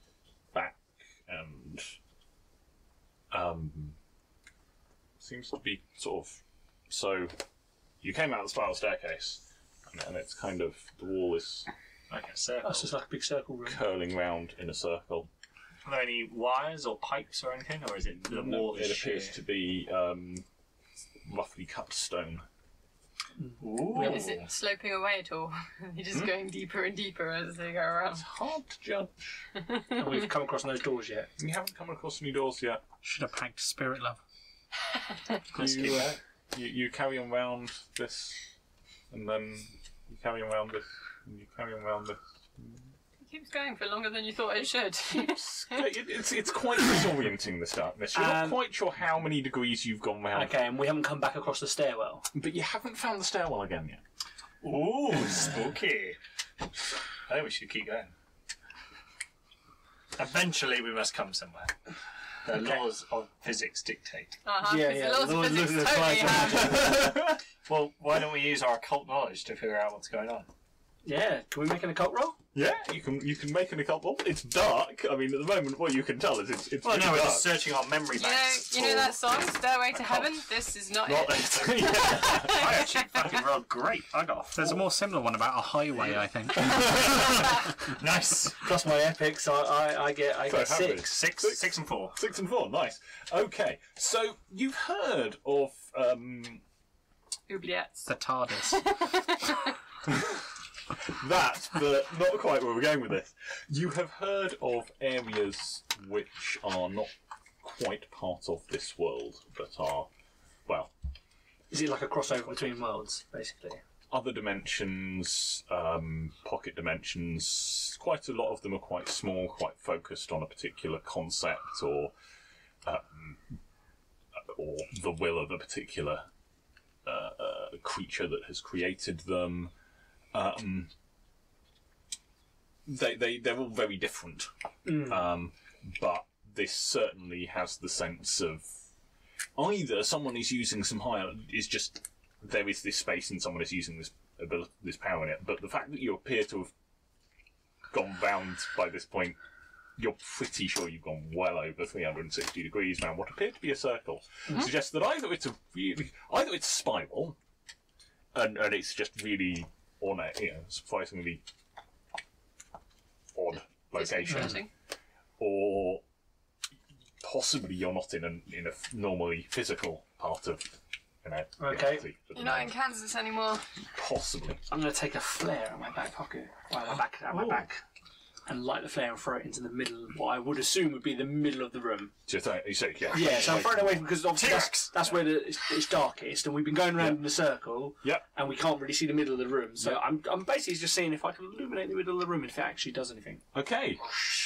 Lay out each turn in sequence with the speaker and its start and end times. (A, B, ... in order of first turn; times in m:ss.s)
0:00.5-0:02.0 A
0:03.3-0:04.0 A
0:05.2-0:07.4 A
0:08.0-0:11.7 A
0:12.1-0:12.9 B
0:12.6-0:13.8 C
0:13.6-0:15.3 A
0:15.8-0:19.4 B
0:18.3-0:20.4 A
0:21.2-0:22.4 A
0:23.4-0:24.3 C
0:23.6-0:24.5 B
0:23.9-0:28.2 D
0:28.1-0:29.1 A
0:30.0-0:31.3 C
0:31.4-0:32.8 A
0:33.0-0:34.2 E
0:35.5-0:36.2 B
0:35.5-0:38.5 A
0:39.1-0:42.8 A
0:43.2-0:45.9 D
0:45.1-0:50.6 A
0:48.1-0:48.6 C
0:50.3-0:52.3 C
0:52.3-0:54.0 A
0:54.6-0:56.2 B
0:57.3-0:58.1 B
1:00.2-1:01.7 B
1:02.4-1:04.4 B
1:04.4-1:06.9 D
1:04.6-1:07.1 C
1:06.6-1:07.4 A
1:07.6-1:10.5 B
1:11.0-1:12.4 C
1:12.5-1:17.7 A
1:16.8-1:19.1 B
1:18.2-1:23.3 D
1:20.0-1:20.3 A
1:21.0-1:22.7 A
1:22.4-1:24.8 B
1:24.6-1:27.5 E
1:27.8-1:28.6 B
1:28.6-1:31.1 C
1:30.4-1:36.6 A
1:31.0-1:32.1 B
1:37.5-1:38.1 D
1:38.0-1:39.0 E
1:38.7-1:39.7 D
1:41.1-1:47.1 A
1:47.6-1:50.1 A
1:50.6-1:50.9 A
1:51.7-1:53.8 C
1:54.1-2:02.1 A
2:02.8-2:03.4 A
2:04.4-2:06.3 A
2:07.0-2:09.7 A
2:10.3-2:10.9 A
2:12.9-2:18.7 A
2:14.8-2:15.2 C
2:19.6-2:26.7 A
2:27.9-2:29.4 A
2:30.0-2:37.4 A
2:38.3-2:41.4 A
2:43.3-2:44.6 A
2:44.0-2:44.7 D
2:45.4-2:46.0 A
2:47.2-2:52.7 A
2:51.6-2:52.1 C
2:52.3-2:53.6 D
2:53.9-2:54.6 A
2:54.7-2:57.8 C
2:57.3-2:57.6 B
2:58.4-3:02.1 C
3:02.3-3:04.1 A
3:03.1-3:13.4 C
3:04.3-3:05.2 B
3:07.0-3:07.3 A
3:13.5-3:14.1 A